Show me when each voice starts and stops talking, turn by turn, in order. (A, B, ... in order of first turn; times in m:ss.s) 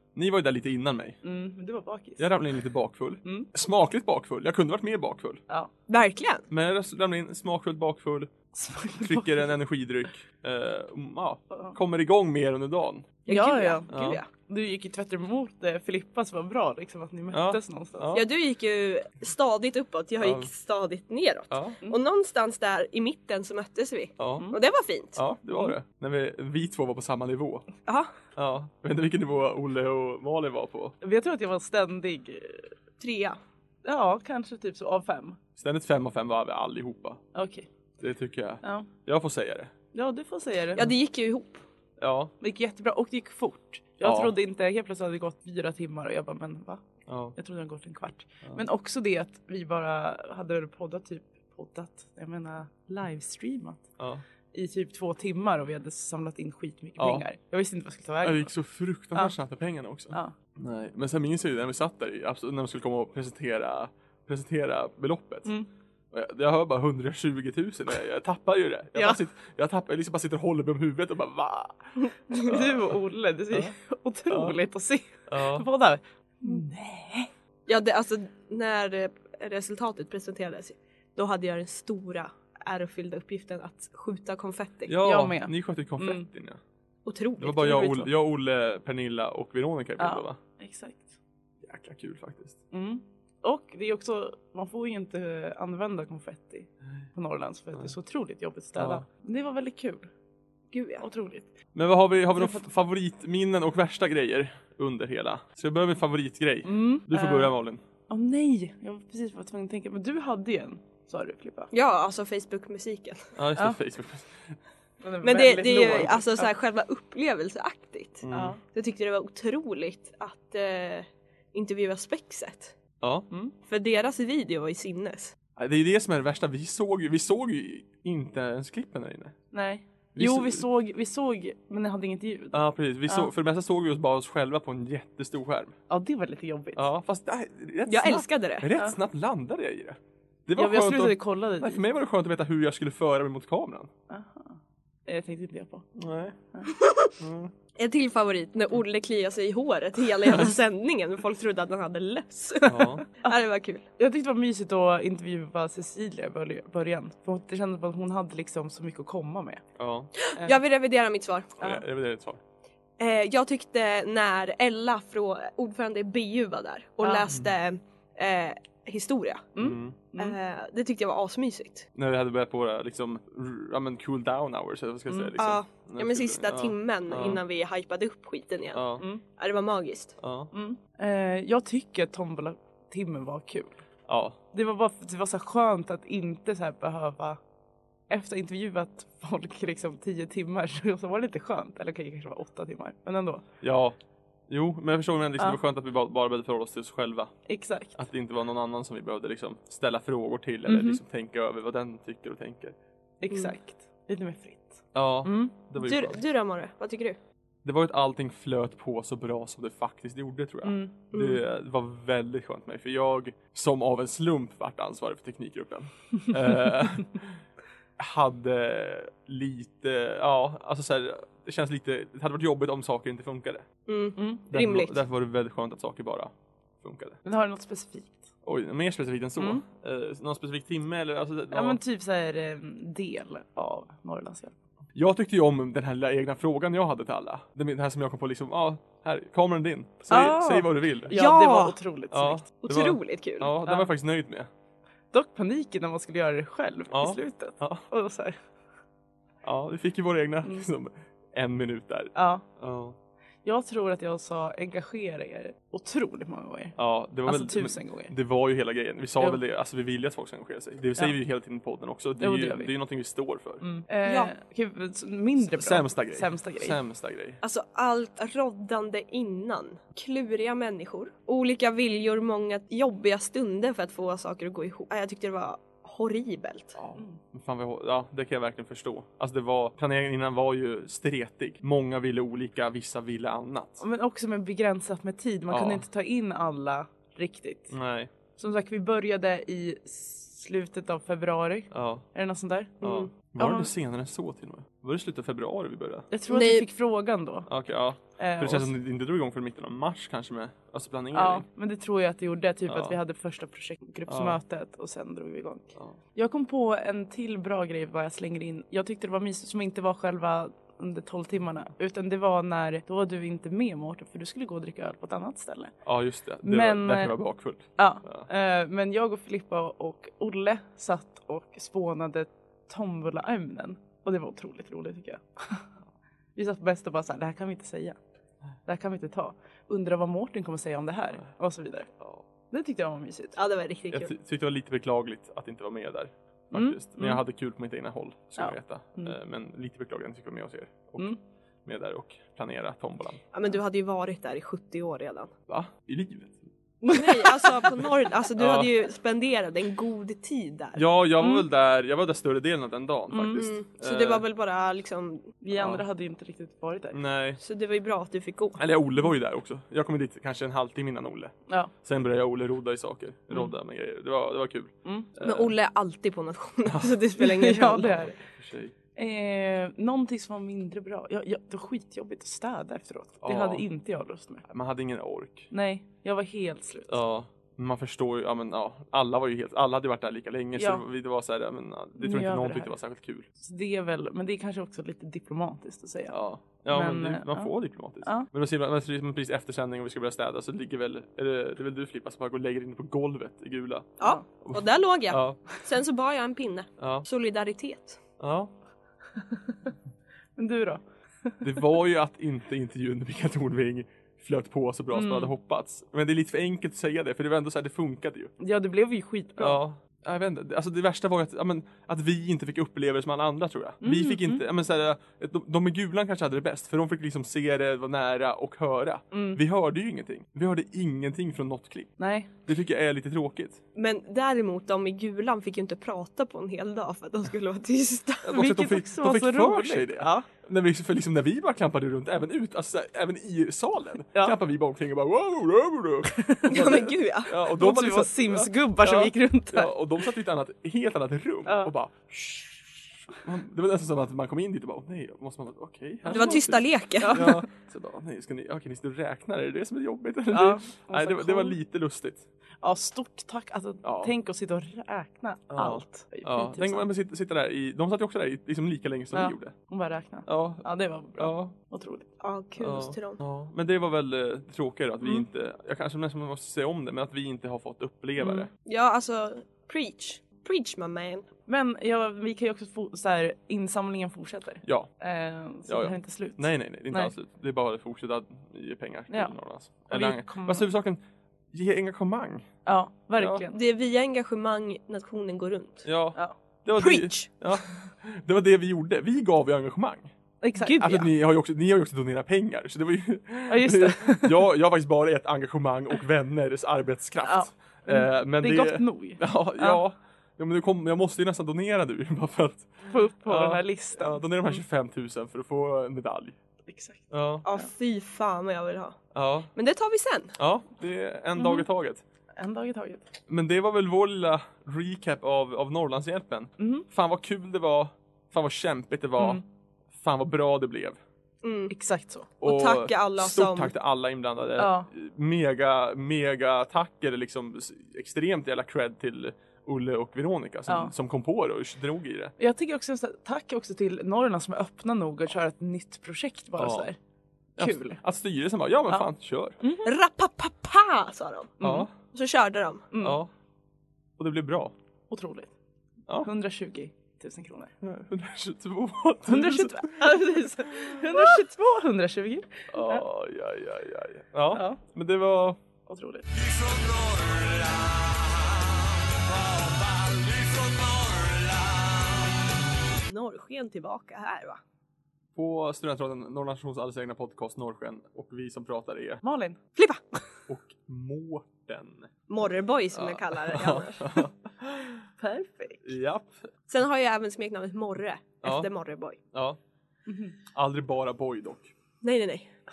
0:00.1-0:01.2 A
0:01.2-0:02.3 B
0:02.2-0:05.4 A
0:03.2-0:03.5 B
0:05.9-0:06.5 C
0:06.5-0:08.3 A
0:08.5-0:09.5 B
0:09.0-0:13.2 A
0:11.5-0:11.8 B
0:13.2-0:14.3 C
0:13.3-0:18.1 B
0:13.9-0:14.2 A
0:17.3-0:18.3 A
0:18.1-0:25.2 C
0:20.2-0:20.5 A
0:21.5-0:21.8 A
0:24.2-0:24.5 A
0:25.2-0:27.7 A
0:28.4-0:30.9 A
0:31.0-0:32.7 B
0:33.0-0:33.4 C
0:33.8-0:35.4 B
0:35.6-0:37.2 A
0:37.4-0:37.7 B
0:38.0-0:39.7 A
0:38.6-0:38.9 B
0:39.9-0:40.8 B
0:40.8-0:41.6 C
0:42.0-0:42.3 A
0:42.4-0:46.8 B
0:44.0-0:44.3 A
0:47.1-0:47.4 A
0:47.4-0:53.9 B
0:54.5-0:58.5 B
0:57.0-0:57.3 A
0:58.2-1:05.5 A
1:06.1-1:11.9 A
1:12.3-1:17.3 B
1:12.4-1:12.9 A
1:14.3-1:14.6 A
1:15.3-1:15.6 A
1:17.7-1:24.9 C
1:24.9-1:26.6 A
1:25.0-1:26.3 B
1:27.1-1:28.1 C
1:27.4-1:30.4 A
1:30.0-1:31.1 B
1:31.6-1:32.6 A
1:32.7-1:40.1 B
1:38.8-1:39.0 A
1:40.7-1:41.0 C
1:41.0-1:41.5 B
1:41.8-1:47.8 A
1:42.4-1:42.6 B
1:46.6-1:47.6 B
1:48.1-1:51.7 B
1:51.7-1:53.3 C
1:53.4-1:54.6 A
1:55.0-1:56.5 B
1:55.2-2:02.8 C
1:58.2-1:58.6 A
1:58.3-1:58.6 B
2:03.0-2:03.3 A
2:03.6-2:05.4 C
2:05.6-2:09.4 A
2:09.5-2:13.3 B
2:10.1-2:10.6 A
2:12.5-2:15.8 A
2:15.9-2:16.9 B
2:16.8-2:23.9 A
2:17.9-2:18.7 C
2:20.6-2:21.8 B
2:24.1-2:25.8 B
2:26.0-2:26.4 A
2:26.8-2:27.1 C
2:27.2-2:27.5 A
2:27.8-2:33.8 C
2:32.7-2:33.0 A
2:34.0-2:39.6 B
2:39.8-2:40.1 A
2:40.2-2:41.8 C
2:41.6-2:42.4 A
2:43.0-2:49.5 C
2:47.0-2:47.3 B
2:49.6-2:50.4 B
2:49.6-2:50.0 A
2:50.2-2:51.9 C
2:51.9-2:57.4 A
2:55.4-3:00.2 C
2:58.7-2:59.0 A
3:00.2-3:00.5 A
3:00.5-3:03.8 B
3:04.1-3:04.4 A
3:04.5-3:07.4 B
3:08.1-3:13.4 B
3:13.6-3:14.0 A
3:14.5-3:17.3 A
3:17.5-3:18.0 B
3:17.9-3:22.8 A
3:20.6-3:21.0 B
3:23.2-3:25.5 B
3:24.9-3:26.2 A
3:25.8-3:27.2 C
3:27.6-3:37.4 A
3:30.6-3:30.9 B
3:31.1-3:31.4 C
3:38.0-3:43.7 A
3:43.9-3:45.0 C
3:44.2-3:44.4 B
3:44.5-3:47.2 A
3:47.2-3:48.3 B
3:48.4-3:51.8 A
3:49.4-3:49.6 B
3:51.5-3:54.5 B
3:54.9-4:01.2 A
4:00.1-4:02.4 B
4:01.1-4:01.8 C
4:02.1-4:04.5 A
4:02.6-4:03.5 C
4:05.1-4:08.4 B
4:06.9-4:07.8 A
4:09.4-4:13.0 A
4:12.1-4:12.4 B
4:13.4-4:18.1 B
4:16.8-4:23.6 A
4:22.2-4:22.7 B
4:23.6-4:26.8 B
4:24.0-4:24.3 C
4:25.4-4:27.4 A
4:27.4-4:36.8 C
4:36.8-4:43.8 A
4:43.8-4:47.8 B
4:45.5-4:45.8 A
4:47.7-4:48.1 A
4:48.4-4:53.7 B
4:51.7-4:52.0 A
4:52.8-4:53.1 C
4:52.8-4:56.1 A
4:56.1-4:57.5 B
4:56.3-4:56.6 C
4:57.5-5:01.4 A
4:58.2-4:58.7 B
5:01.1-5:15.7 B
5:02.7-5:03.0 A
5:04.1-5:04.4 A
5:15.8-5:18.3 A
5:16.4-5:17.2 B
5:17.8-5:25.7 B
5:26.4-5:28.0 B
5:28.6-5:31.9 B
5:32.5-5:33.4 B
5:33.4-5:34.1 C
5:33.9-5:43.2 A
5:36.5-5:37.2 B
5:38.4-5:39.2 B
5:43.3-5:45.3 C
5:45.5-5:46.4 A
5:46.8-5:47.3 B
5:46.9-5:50.8 C
5:48.4-5:48.7 A
5:50.8-5:54.2 A
5:53.1-5:53.4 B
5:53.4-5:55.3 C
5:55.4-5:57.0 B
5:55.6-5:55.8 A
5:56.9-5:57.4 A
5:57.4-5:58.6 C
5:58.6-6:05.5 A
6:04.8-6:05.1 B
6:05.2-6:07.9 C
6:06.6-6:07.0 A
6:07.2-6:08.1 B
6:07.8-6:08.7 A
6:09.0-6:14.4 B
6:13.2-6:13.7 A
6:14.4-6:15.5 A
6:15.5-6:16.9 B
6:16.9-6:23.3 A
6:20.6-6:20.8 B
6:22.0-6:22.7 B
6:23.4-6:27.5 B
6:26.1-6:35.4 A
6:28.0-6:28.3 B
6:34.0-6:38.0 C
6:36.8-6:37.1 A
6:38.2-6:38.5 A
6:39.3-6:39.5 B
6:40.4-6:41.5 B
6:41.4-6:48.3 A
6:44.9-6:45.3 B
6:48.4-6:49.6 B
6:49.4-7:03.6 A
6:53.8-6:54.4 B
6:59.1-6:59.4 B
7:02.0-7:02.3 B
7:03.8-7:08.4 C
7:08.2-7:32.3 A
7:08.3-7:10.3 B
7:16.1-7:16.8 B
7:16.4-7:17.3 C
7:17.5-7:19.8 B
7:21.4-7:21.7 B
7:26.0-7:27.4 B
7:26.1-7:27.2 C
7:30.3-7:31.6 B
7:32.6-7:36.9 B
7:33.8-7:34.1 A
7:35.5-7:39.6 A
7:39.1-7:42.1 B
7:40.3-7:40.6 A
7:41.2-7:41.5 A
7:42.2-7:43.2 C
7:42.6-7:48.5 A
7:48.6-7:51.3 C
7:51.5-7:57.1 B
7:54.6-7:54.9 A
7:55.7-8:01.0 A
7:59.1-7:59.4 B
7:59.9-8:00.7 B
8:01.5-8:02.5 A
8:02.6-8:03.5 B
8:03.2-8:03.4 A
8:03.5-8:05.8 C
8:05.8-8:26.4 A
8:06.8-8:07.3 C
8:10.4-8:11.1 B
8:13.5-8:14.4 B
8:17.2-8:19.8 B
8:22.9-8:24.6 B
8:26.7-8:27.7 B
8:27.1-8:27.4 A
8:27.4-8:30.4 C
8:29.1-8:29.5 A
8:30.4-8:32.0 A
8:31.4-8:31.6 B
8:32.4-8:33.0 B
8:33.3-8:41.0 A
8:36.6-8:36.9 B
8:39.2-8:39.4 B
8:41.4-8:41.7 C
8:41.7-8:42.3 B
8:42.4-8:52.3 A
8:42.4-8:43.7 C
8:44.6-8:44.9 B
8:50.7-8:50.9 B
8:52.4-8:57.0 B
8:56.6-8:56.9 A
8:57.6-8:58.0 B
8:57.6-8:59.6 A
8:59.6-8:59.9 B
8:59.8-9:02.9 C
9:01.6-9:01.9 B
9:01.6-9:01.9 A
9:02.9-9:03.2 B
9:03.0-9:03.3 A
9:04.2-9:04.7 A
9:05.1-9:05.5 B
9:06.2-9:07.7 B
9:07.8-9:11.4 A
9:09.3-9:13.0 B
9:12.7-9:15.6 A
9:14.5-9:14.8 B
9:15.9-9:16.3 B
9:16.3-9:22.7 D
9:23.1-9:24.6 C
9:25.4-9:29.2 A
9:29.2-9:29.6 B
9:29.8-9:30.0 C
9:30.5-9:32.1 A
9:32.3-9:34.2 C
9:32.9-9:35.0 A
9:35.2-9:35.9 B
9:35.8-9:36.5 A
9:36.7-9:39.2 C
9:38.4-9:38.7 A
9:39.3-9:39.6 A
9:40.1-9:40.4 B
9:40.5-9:41.7 A
9:42.0-9:42.5 C